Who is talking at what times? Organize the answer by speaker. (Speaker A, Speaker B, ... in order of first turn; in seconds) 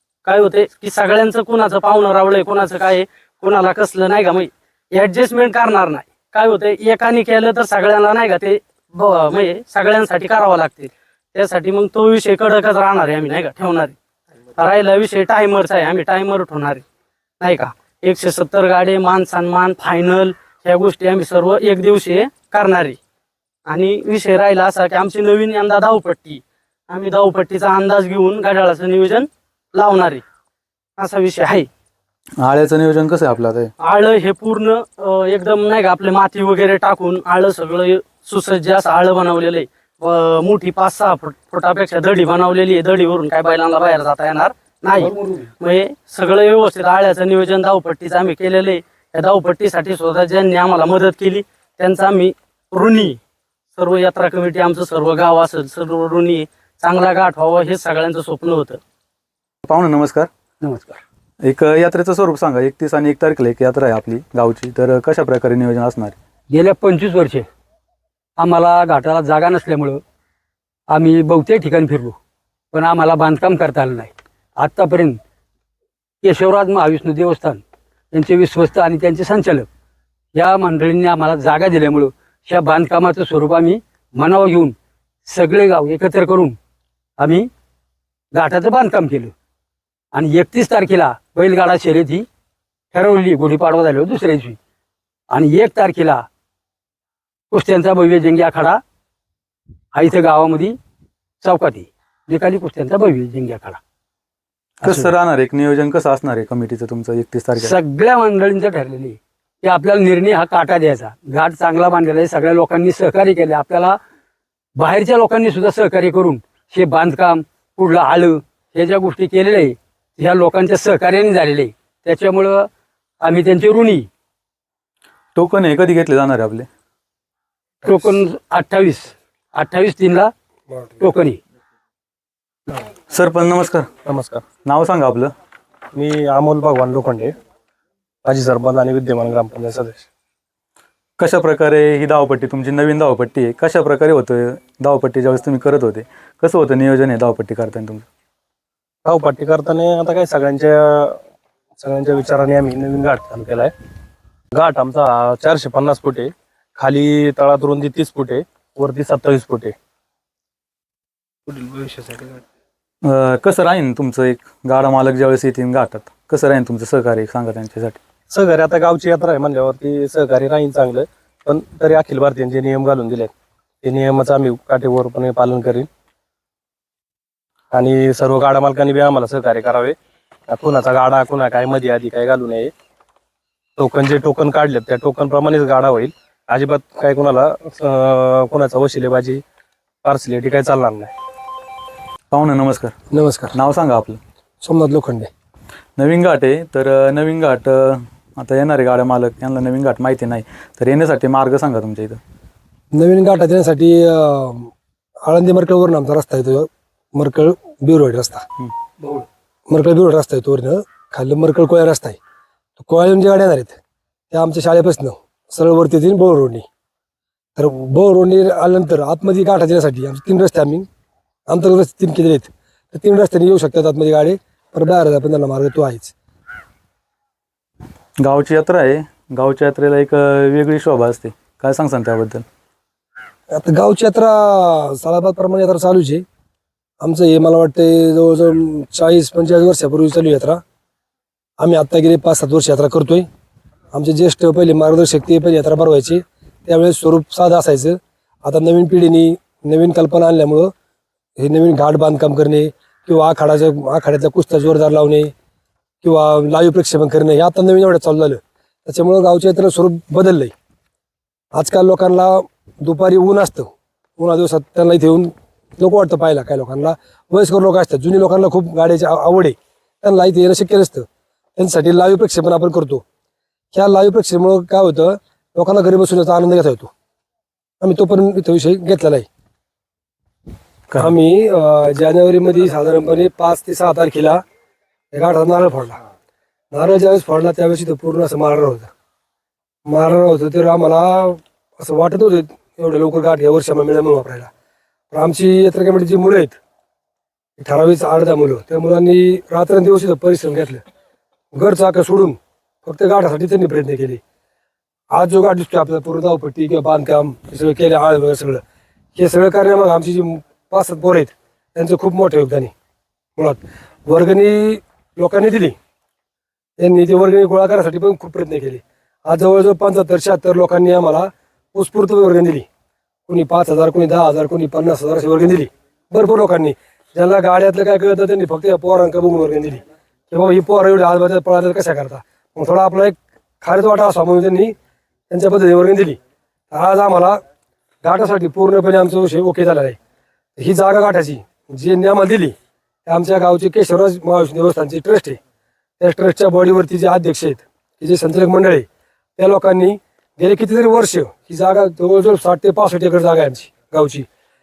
Speaker A: 0.2-13.9, 14.6-16.8, 17.4-23.0, 23.7-30.2, 31.0-31.7, 33.8-53.2, 53.8-58.8
Speaker B: 32.4-33.7, 59.6-60.3, 61.4-66.2, 104.8-107.7, 125.3-126.7, 133.1-133.9, 134.6-135.3, 141.2-148.1, 163.0-168.0, 192.3-192.9, 193.5-194.2, 196.0-202.2, 228.2-232.4
Speaker C: 60.6-61.0, 66.5-67.5, 68.4-70.0, 70.9-72.2, 72.7-75.2, 76.2-79.7, 80.3-84.8, 85.3-86.6, 87.2-87.5, 88.3-89.3, 90.1-92.2, 92.9-94.6, 95.3-96.2, 97.5-98.8, 99.9-100.8, 101.4-103.8, 107.5-114.0, 114.8-122.7, 123.2-124.1, 127.8-130.3, 131.0-131.4
Speaker D: 134.1-134.4, 135.9-137.3, 138.2-140.1, 149.0-151.2, 151.8-153.7, 154.5-159.7, 161.5-162.4, 168.3-173.3, 173.8-175.9, 177.7-179.9, 180.5-182.7, 183.8-189.4, 190.0-191.1
Speaker E: 193.1-193.5, 194.6-195.3, 202.9-204.7, 205.2-208.4, 209.0-212.2, 212.8-213.8, 214.3-216.6, 217.6-220.9, 221.5-226.1, 233.5-236.2, 237.0-240.6, 241.6-243.3, 243.9-250.7, 251.4-255.3, 256.0-260.5, 261.5-273.0, 273.7-276.9, 277.8-279.3, 280.9-284.4, 285.1-286.0, 286.7-288.9, 289.9-294.5, 295.1-296.6, 297.6-300.8, 301.5-304.2, 305.1-308.6, 309.1-312.7, 313.4-315.8, 316.8-322.6, 323.3-334.7, 335.3-336.2, 336.7-337.4, 338.0-340.0, 340.6-342.5, 343.1-345.4, 346.0-348.9, 349.4-354.2